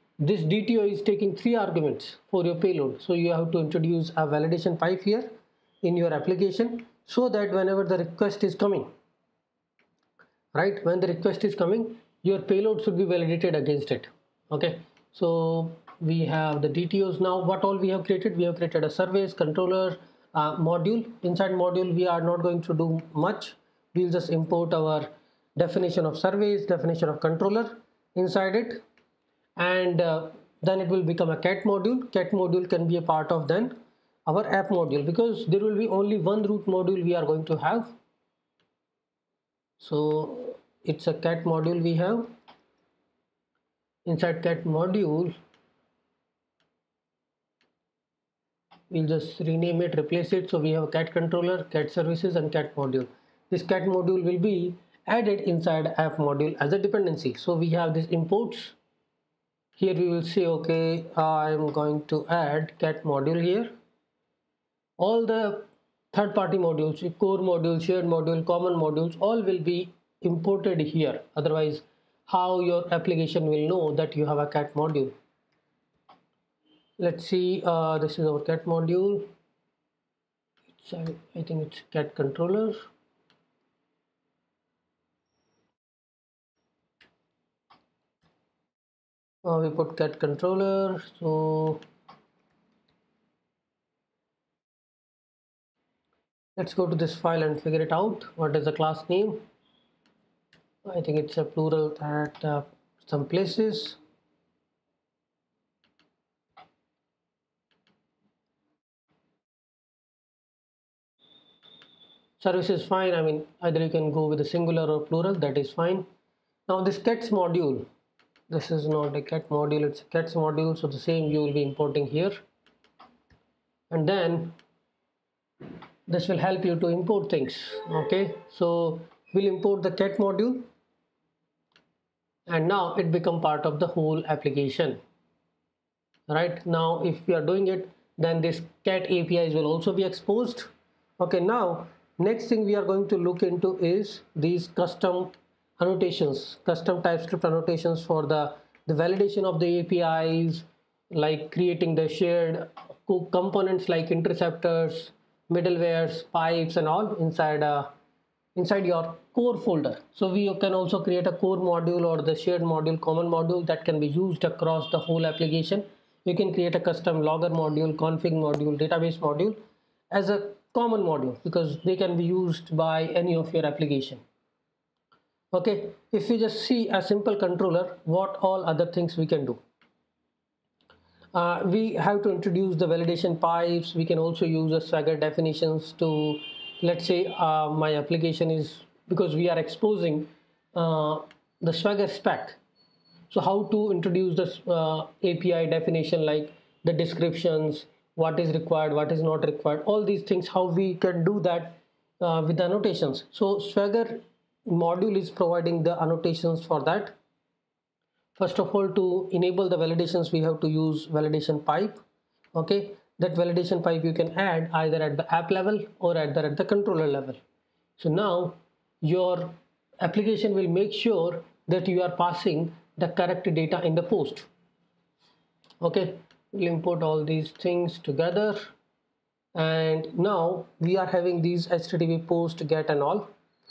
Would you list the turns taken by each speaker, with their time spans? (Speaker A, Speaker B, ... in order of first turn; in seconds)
Speaker A: 0.2-5.3, 5.8-8.9, 10.5-28.8, 29.6-38.0, 39.8-42.3, 44.0-45.3, 48.9-58.8, 59.8-63.7, 65.0-75.1, 77.0-79.3, 80.8-82.8, 89.5-91.8, 96.6-99.4, 100.8-104.0, 112.4-116.0, 116.7-117.9, 118.5-122.4, 123.9-124.5, 126.1-130.7, 132.5-135.0, 136.3-157.9, 158.6-169.6, 170.1-174.2, 175.5-179.6, 181.3-192.6, 193.3-207.2, 208.4-212.0, 212.6-217.4, 218.0-224.5, 225.8-228.7, 229.6-233.3